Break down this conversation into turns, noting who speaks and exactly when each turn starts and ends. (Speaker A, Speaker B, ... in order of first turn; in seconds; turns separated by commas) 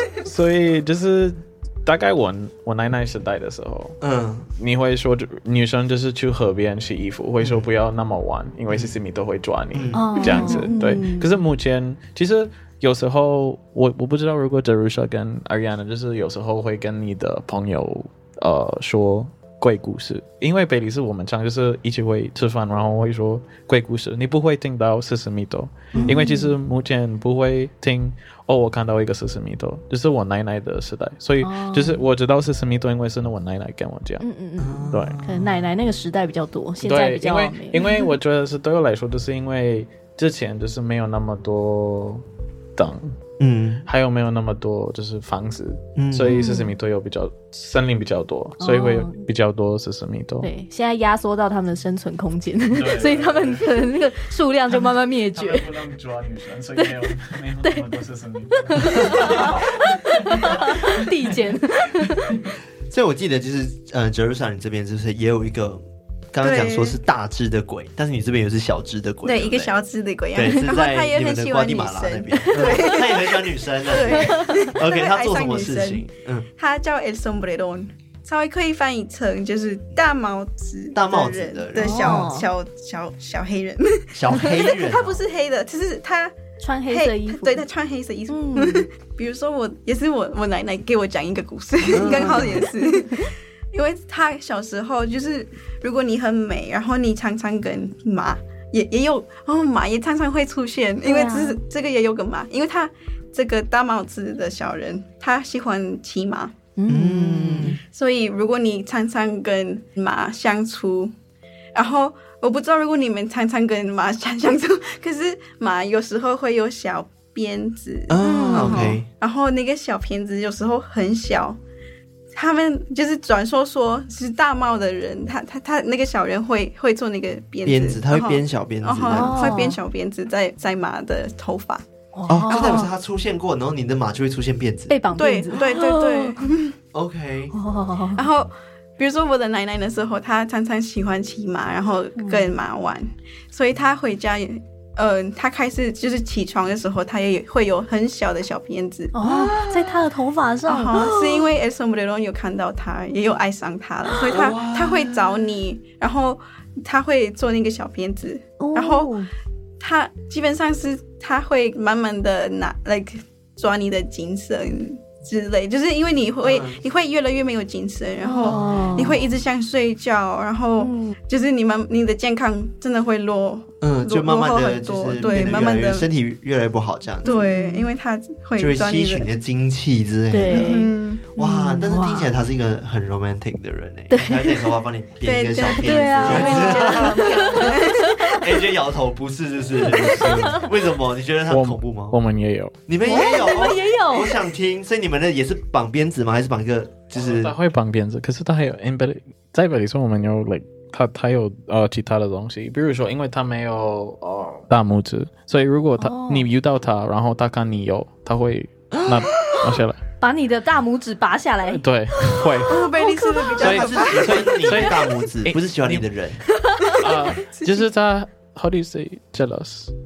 Speaker A: 0.2-4.0, Speaker B: 4.0-4.5, Speaker A: 4.6-34.2, Speaker B: 7.4-7.7, Speaker B: 8.7-8.9, Speaker B: 9.7-10.7, Speaker C: 9.9-11.3, Speaker B: 25.9-26.2, Speaker C: 25.9-26.6, Speaker C: 31.4-32.0, Speaker C: 34.2-37.8, Speaker B: 34.6-35.7, Speaker A: 34.9-35.2, Speaker A: 36.8-42.2, Speaker A: 42.8-43.2, Speaker B: 43.4-43.9, Speaker A: 43.9-50.5, Speaker B: 46.0-46.4, Speaker C: 46.3-46.7, Speaker C: 48.6-49.2, Speaker C: 50.4-55.7, Speaker A: 52.7-53.8, Speaker A: 54.8-61.1, Speaker C: 58.5-62.4, Speaker B: 62.9-69.7, Speaker D: 66.4-67.0, Speaker D: 69.2-86.4, Speaker B: 70.3-76.5, Speaker B: 80.9-82.3, Speaker C: 81.8-82.5, Speaker B: 84.1-85.2, Speaker C: 86.6-87.6, Speaker D: 86.9-106.5, Speaker C: 88.3-88.9, Speaker B: 91.9-92.7, Speaker C: 92.0-92.5, Speaker C: 101.0-101.6, Speaker C: 106.8-107.8, Speaker B: 106.9-107.8, Speaker D: 107.8-111.1, Speaker D: 111.8-121.6, Speaker B: 118.1-119.1, Speaker C: 118.2-119.0, Speaker D: 122.3-131.8, Speaker B: 127.6-129.6, Speaker C: 129.1-129.8, Speaker C: 132.1-132.9, Speaker B: 132.3-134.9, Speaker D: 132.5-132.8, Speaker C: 134.9-136.4, Speaker D: 135.1-136.8, Speaker B: 136.9-137.5, Speaker C: 137.5-138.2, Speaker D: 138.2-149.8, Speaker C: 142.2-142.5, Speaker C: 149.1-151.5, Speaker D: 150.7-159.1, Speaker B: 154.2-155.2, Speaker C: 158.6-159.3, Speaker D: 159.8-176.1, Speaker B: 166.4-166.8, Speaker C: 168.2-169.2, Speaker B: 168.4-169.1, Speaker C: 170.8-171.2, Speaker B: 173.8-177.3, Speaker C: 175.2-175.6, Speaker D: 177.2-179.3, Speaker C: 177.2-177.9, Speaker B: 178.6-192.2, Speaker C: 180.3-182.3, Speaker D: 180.4-181.2, Speaker C: 184.1-184.6, Speaker D: 185.2-188.2, Speaker C: 185.8-188.4, Speaker C: 189.9-190.6, Speaker A: 191.5-192.8, Speaker B: 192.9-197.5, Speaker C: 193.0-194.4, Speaker A: 197.1-210.0, Speaker C: 206.0-206.5, Speaker B: 208.9-209.6, Speaker C: 210.2-213.6, Speaker A: 211.7-212.9, Speaker D: 212.6-214.8, Speaker A: 213.6-216.1, Speaker B: 213.6-216.4, Speaker C: 216.7-217.1, Speaker A: 216.9-219.9, Speaker D: 217.4-217.8